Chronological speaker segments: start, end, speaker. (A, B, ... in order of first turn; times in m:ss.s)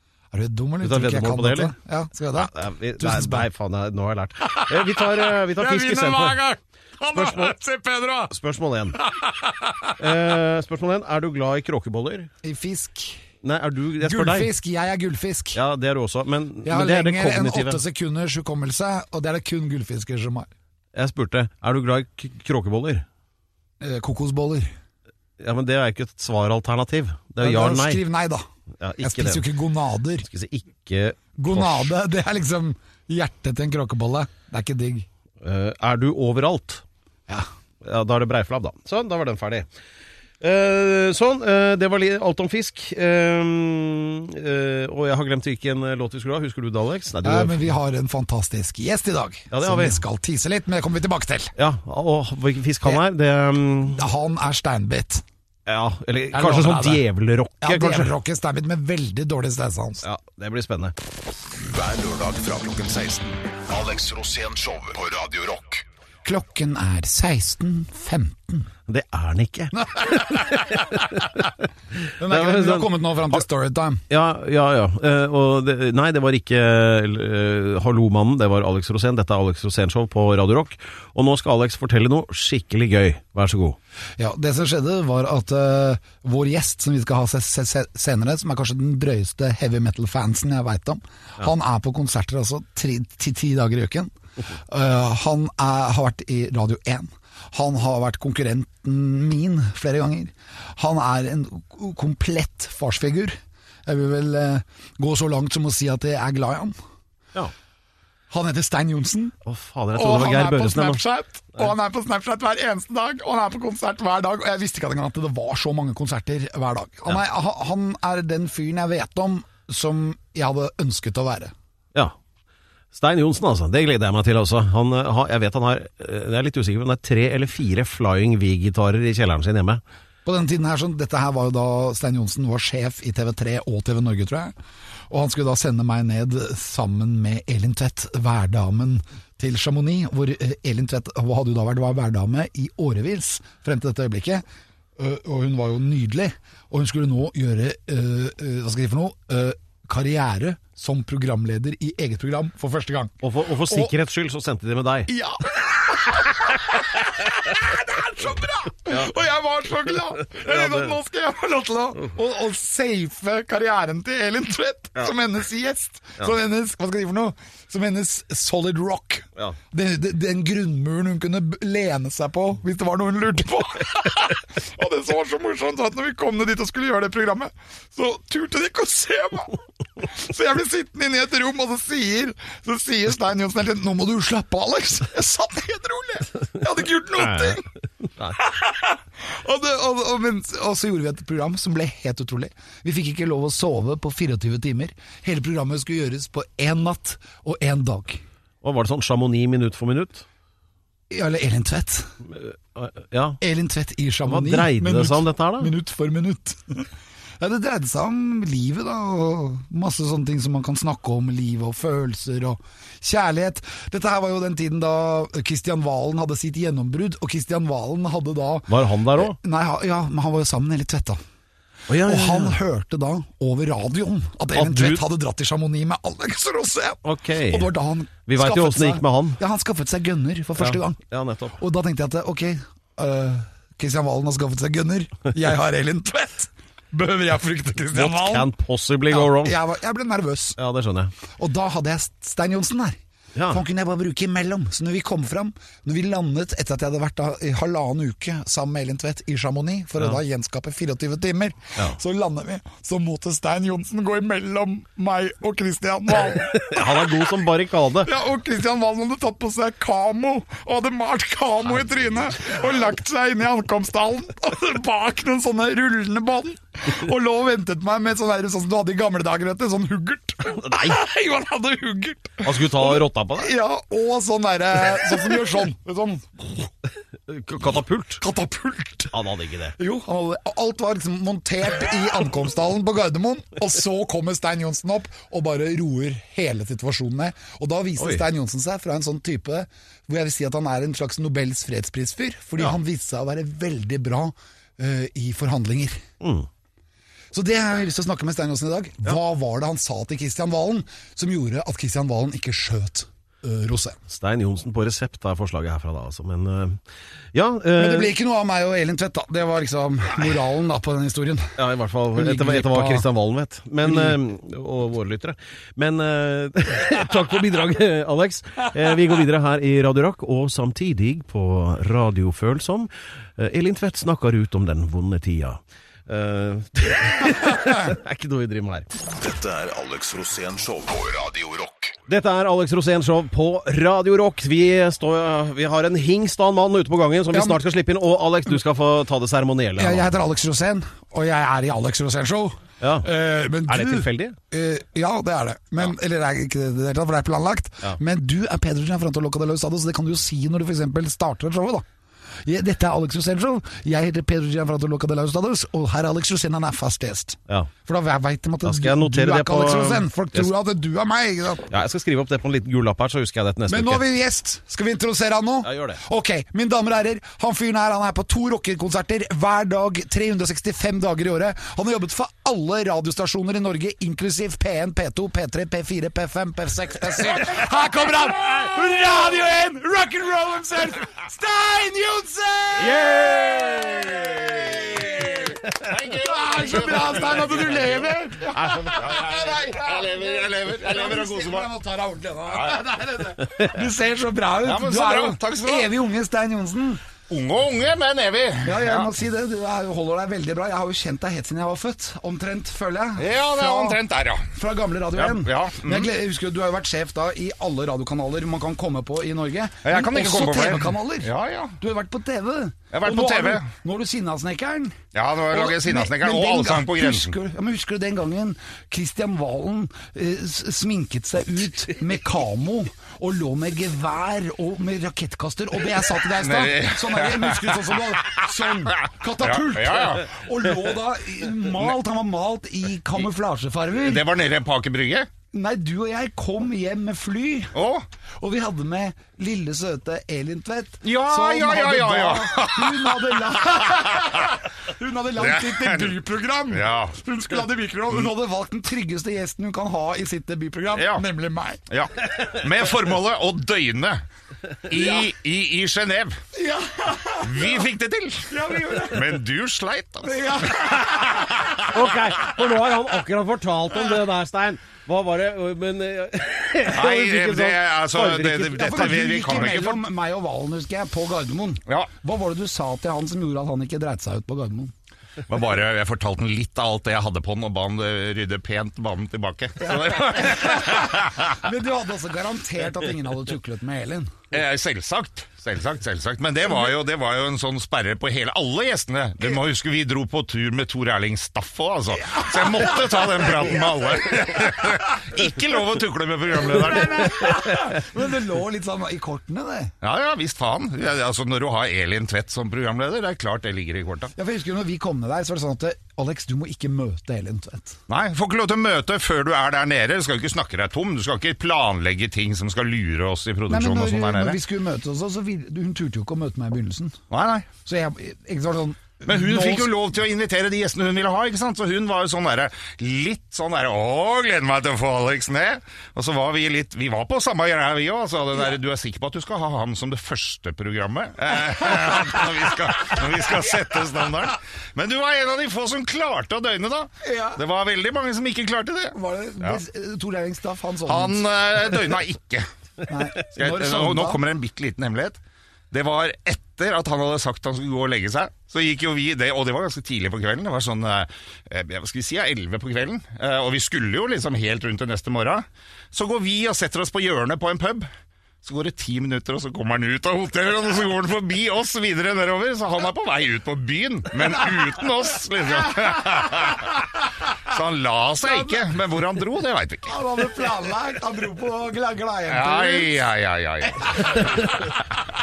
0:00.3-0:03.5 A
0:00.8-0:01.7 B
0:02.3-0:06.4 B
0:04.4-0:08.3 A
0:07.1-0:07.6 B
0:08.3-0:09.0 B
0:09.0-0:10.0 A
0:10.0-0:12.3 B
0:12.4-0:13.2 A
0:13.4-0:14.5 B
0:14.0-0:15.6 A
0:15.5-0:17.8 B
0:16.6-0:20.5 A
0:20.9-0:23.0 B
0:23.8-0:24.7 A
0:25.4-0:28.0 B
0:27.4-0:28.4 A
0:28.8-0:29.4 B
0:29.0-0:30.3 A
0:30.2-0:31.9 B
0:31.4-0:35.0 A
0:35.4-0:36.8 B
0:37.8-0:39.7 B
0:40.4-0:47.7 B
0:47.2-0:51.5 A
0:49.5-0:50.0 B
0:51.6-0:54.0 B
0:53.9-0:55.2 A
0:55.7-0:58.1 B
0:56.3-0:57.0 A
0:57.6-1:00.0 A
1:00.0-1:00.9 B
1:01.6-1:05.8 C
1:06.2-1:08.7 A
1:08.9-1:11.6 B
1:09.7-1:10.8 A
1:12.2-1:14.0 A
1:12.2-1:13.4 B
1:14.1-1:23.8 B
1:24.2-1:46.8 A
1:48.3-1:49.3 A
1:49.4-1:51.0 B
1:49.9-2:01.5 A
2:02.9-2:09.8 B
2:10.2-2:14.5 A
2:15.1-2:24.4 A
2:25.0-2:33.9 A
2:33.2-2:35.1 B
2:35.1-3:07.6 A
2:40.4-2:40.9 B
3:07.2-3:08.4 B
3:08.4-3:18.2 A
3:18.6-3:20.2 B
3:21.1-3:22.1 A
3:22.3-3:23.4 B
3:23.4-3:26.9 A
3:24.3-3:25.7 B
3:27.4-3:41.2 A
3:38.7-3:39.4 B
3:41.9-3:42.6 B
3:42.0-3:51.0 A
3:44.5-3:45.0 B
3:47.0-3:47.7 B
3:48.3-3:49.4 B
3:50.6-3:51.6 B
3:51.6-3:58.5 A
3:57.9-3:59.6 B
3:59.1-4:00.6 A
4:00.6-4:01.1 B
4:01.4-4:03.0 A
4:03.3-4:03.6 B
4:03.5-4:17.2 A
4:16.3-4:18.1 B
4:18.0-4:36.7 A
4:21.7-4:22.0 B
4:30.6-4:31.0 B
4:32.4-4:33.5 B
4:37.3-4:38.2 B
4:38.2-4:39.1 A
4:39.1-4:39.7 B
4:39.8-4:56.0 A
4:48.0-4:48.2 B
4:56.2-4:56.5 B
4:57.3-5:04.0 A
5:04.1-5:06.8 B
5:07.3-5:08.1 B
5:07.8-5:11.6 A
5:11.6-5:28.9 B
5:12.1-5:13.0 A
5:13.8-5:14.1 A
5:29.1-5:32.0 C
5:32.1-5:40.1 B
5:37.3-5:37.6 A
5:39.8-5:51.8 A
5:42.8-5:43.1 B
5:43.6-5:44.4 B
5:52.4-6:01.7 A
5:58.6-6:00.5 B
6:01.7-6:04.0 B
6:03.7-6:23.4 A
6:05.6-6:06.0 B
6:22.8-6:24.6 B
6:24.1-6:25.5 A
6:24.7-6:28.2 D
6:26.2-6:37.0 A
6:28.5-6:29.1 B
6:29.0-6:31.7 D
6:32.5-6:32.8 D
6:34.6-6:35.9 D
6:37.3-6:39.1 D
6:38.6-6:44.0 A
6:43.2-6:44.4 D
6:44.5-6:55.0 A
6:45.1-6:46.1 D
6:49.8-6:51.8 D
6:52.9-6:53.7 D
6:55.1-6:57.3 D
6:55.5-7:14.2 A
7:06.3-7:10.3 D
7:14.0-7:15.3 D
7:15.5-7:17.7 A
7:17.7-7:18.0 D
7:18.4-7:31.8 A
7:21.0-7:24.5 D
7:25.4-7:26.2 D
7:26.7-7:27.2 D
7:31.0-7:31.2 D
7:31.9-7:34.2 D
7:34.8-7:36.4 D
7:36.5-7:37.8 A
7:37.4-7:41.9 D
7:38.5-7:39.2 A
7:40.2-7:41.5 A
7:41.9-7:49.2 B
7:46.9-7:50.0 D
7:48.8-7:54.9 A
7:55.5-8:01.6 D
7:59.8-8:04.3 A
8:04.5-8:17.6 D
8:12.3-8:13.5 A
8:16.8-8:19.9 A
8:20.0-8:24.3 D
8:24.4-8:28.0 A
8:28.1-8:34.6 D
8:33.7-8:37.2 A
8:37.3-8:37.7 D
8:37.8-8:39.9 A
8:39.3-8:59.8 D
8:57.2-8:57.6 A
8:59.1-9:01.4 A
9:01.1-9:02.7 D
9:03.1-9:04.4 A
9:03.4-9:05.4 D
9:05.9-9:18.1 D
9:18.6-9:30.1 D
9:25.8-9:26.9 A
9:28.4-9:28.8 A
9:30.1-9:33.2 A
9:32.5-9:34.4 D
9:34.0-9:34.7 A